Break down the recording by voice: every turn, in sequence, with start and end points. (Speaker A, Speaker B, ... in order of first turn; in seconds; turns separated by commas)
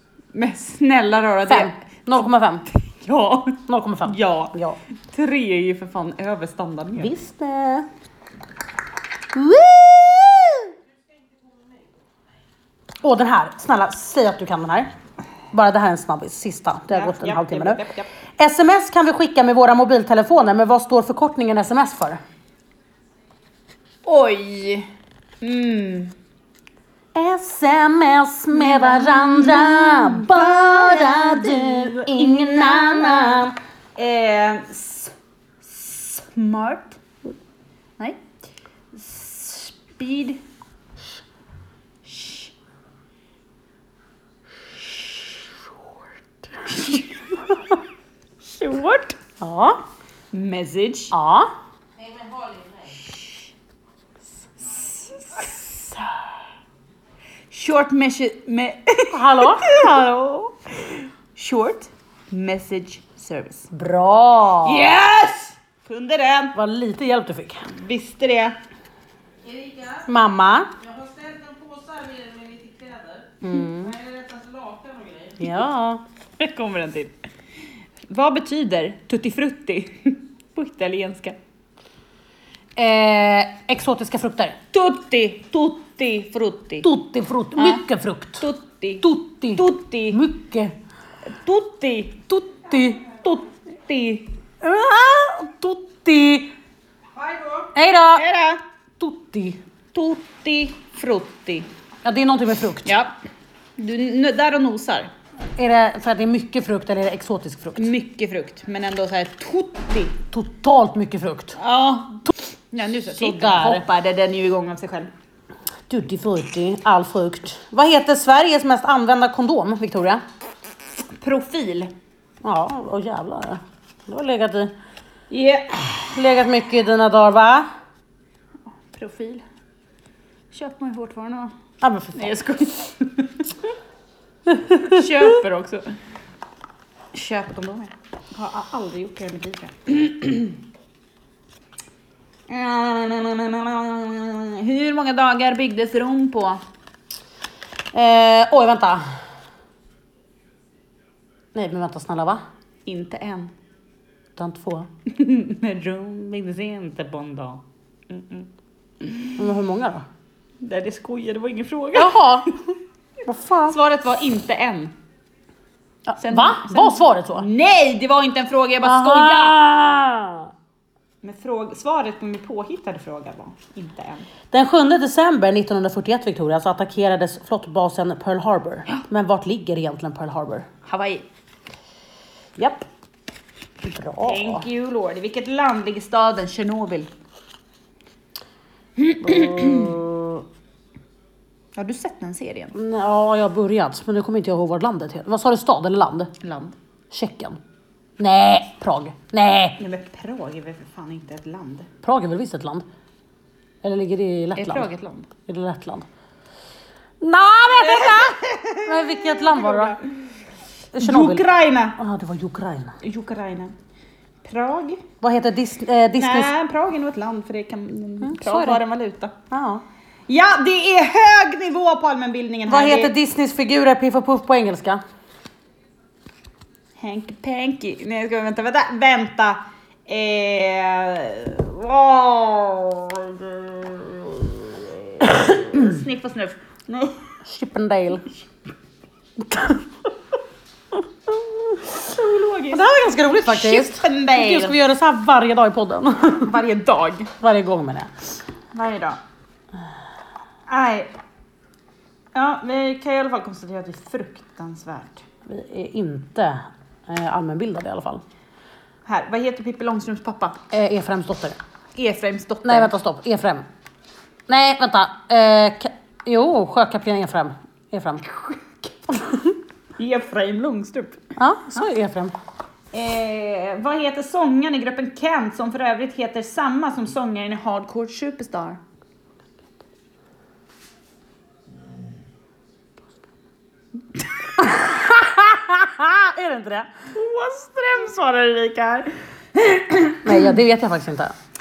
Speaker A: 0.3-1.8, Speaker B: 1.5-2.6, Speaker A: 2.7-4.5, Speaker B: 3.7-4.8, Speaker A: 5.1-7.1, Speaker B: 7.0-7.9, Speaker B: 9.3-10.7, Speaker B: 13.0-14.9, Speaker B: 15.5-17.8, Speaker A: 16.9-18.1, Speaker B: 18.4-22.2, Speaker A: 24.1-24.9, Speaker A: 25.4-26.1, Speaker B: 27.1-33.5, Speaker A: 28.5-37.0, Speaker A: 38.9-40.4, Speaker A: 42.0-42.5, Speaker A: 48.4-49.2, Speaker B: 49.4-49.8, Speaker A: 50.3-51.1, Speaker B: 51.1-51.5, Speaker C: 52.0-53.1, Speaker A: 54.7-55.6, Speaker A: 57.5-63.7, Speaker B: 59.1-59.8, Speaker B: 63.7-64.9, Speaker A: 64.6-66.5, Speaker B: 66.5-67.7, Speaker A: 67.7-68.6, Speaker C: 69.4-70.1, Speaker B: 70.1-70.7, Speaker C: 70.8-75.6, Speaker B: 73.4-74.0, Speaker B: 75.4-76.0, Speaker A: 76.4-77.2, Speaker A: 78.1-81.4, Speaker B: 82.8-84.6, Speaker A: 84.7-86.9, Speaker B: 86.8-88.4, Speaker A: 87.6-87.8, Speaker A: 88.4-90.2, Speaker B: 89.0-90.8, Speaker A: 91.3-92.5, Speaker B: 92.5-93.4, Speaker A: 93.7-94.3, Speaker B: 94.6-96.5, Speaker C: 97.2-97.7, Speaker B: 97.7-98.2, Speaker A: 98.2-98.6, Speaker B: 99.0-99.6, Speaker A: 99.9-101.7, Speaker B: 102.0-102.9, Speaker A: 102.8-103.1, Speaker A: 103.8-105.1, Speaker B: 105.6-107.9, Speaker A: 107.8-110.2, Speaker B: 110.3-111.6, Speaker A: 111.6-115.1, Speaker B: 113.1-113.8, Speaker B: 115.9-120.2, Speaker A: 121.2-121.9, Speaker B: 122.4-124.7, Speaker A: 125.3-125.9, Speaker B: 126.1-127.7, Speaker A: 128.8-129.4, Speaker A: 130.5-131.5, Speaker B: 131.8-132.4, Speaker A: 132.2-133.5, Speaker B: 134.5-135.0, Speaker A: 134.8-135.9, Speaker A: 137.1-140.6, Speaker A: 142.5-146.6, Speaker B: 147.9-149.0, Speaker B: 151.5-152.4, Speaker A: 152.9-153.5, Speaker B: 154.4-154.9, Speaker A: 155.1-158.5, Speaker A: 159.0-159.3, Speaker B: 159.4-160.1, Speaker A: 160.6-162.2, Speaker B: 161.9-162.6, Speaker B: 163.2-163.8, Speaker A: 163.7-164.9, Speaker B: 166.1-167.5, Speaker A: 166.2-169.6, Speaker B: 168.8-170.5, Speaker A: 171.2-174.3, Speaker B: 174.5-180.7, Speaker A: 180.8-181.3, Speaker B: 182.6-182.9, Speaker B: 183.8-184.7, Speaker A: 184.2-187.1, Speaker A: 189.0-190.0, Speaker B: 189.2-190.4, Speaker A: 191.8-192.8, Speaker B: 192.7-196.3, Speaker A: 196.4-196.8, Speaker B: 197.1-197.6, Speaker B: 198.2-199.8, Speaker A: 199.8-201.9, Speaker B: 202.0-202.8, Speaker B: 203.8-204.9, Speaker A: 204.6-205.3, Speaker B: 205.5-206.1, Speaker B: 207.2-210.0, Speaker A: 207.7-210.1, Speaker B: 210.9-211.4, Speaker A: 211.0-212.0, Speaker B: 212.0-213.0, Speaker A: 213.0-213.7, Speaker A: 214.4-215.0, Speaker B: 215.2-216.5, Speaker A: 216.2-219.3, Speaker B: 218.2-218.8, Speaker B: 219.5-219.8, Speaker A: 220.3-223.1, Speaker B: 222.7-225.0, Speaker A: 227.0-237.2, Speaker B: 237.4-238.3, Speaker B: 239.4-239.8, Speaker A: 241.9-242.9, Speaker B: 242.7-246.6, Speaker A: 243.4-244.8, Speaker A: 246.4-247.3, Speaker B: 247.4-248.1, Speaker A: 248.7-249.2, Speaker A: 250.7-251.1, Speaker A: 252.3-255.2, Speaker B: 255.5-258.2, Speaker A: 259.1-260.6, Speaker B: 260.7-261.6, Speaker A: 262.0-262.9, Speaker B: 262.6-263.7, Speaker B: 264.5-268.6, Speaker B: 269.1-269.6, Speaker A: 270.0-271.2, Speaker B: 271.4-272.4, Speaker A: 272.9-278.8, Speaker B: 284.6-286.9, Speaker A: 287.1-290.4, Speaker B: 290.2-291.3